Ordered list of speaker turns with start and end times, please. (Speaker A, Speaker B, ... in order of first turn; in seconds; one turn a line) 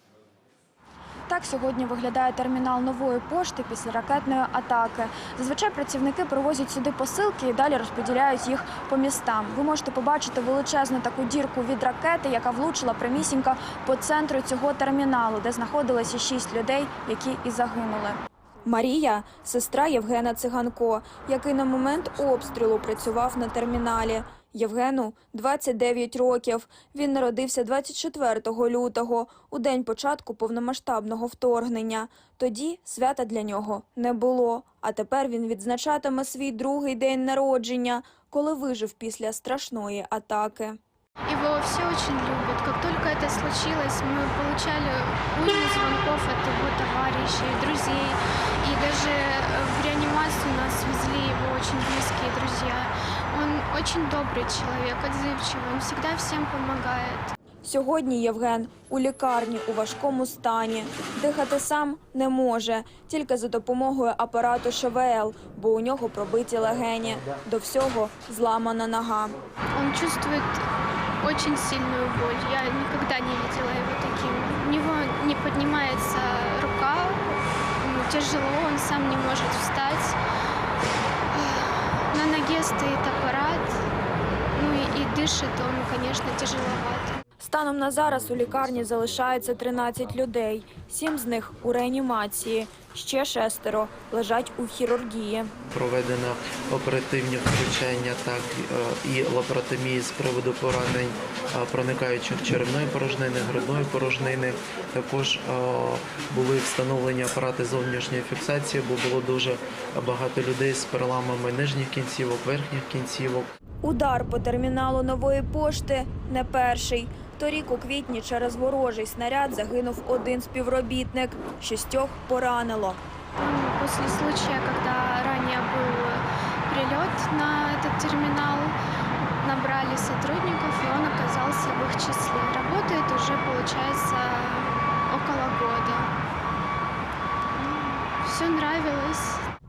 Speaker A: 1.3-40.8
Speaker B: 41.2-57.3
Speaker A: 57.6-69.3
Speaker B: 69.7-70.6
Speaker B: 71.2-80.2
Speaker B: 81.3-83.8
Speaker B: 84.5-87.2
Speaker A: 87.4-95.5
Speaker C: 95.7-113.5
Speaker A: 113.8-123.0
Speaker B: 123.4-128.8
Speaker B: 129.4-136.1
Speaker B: 137.6-139.4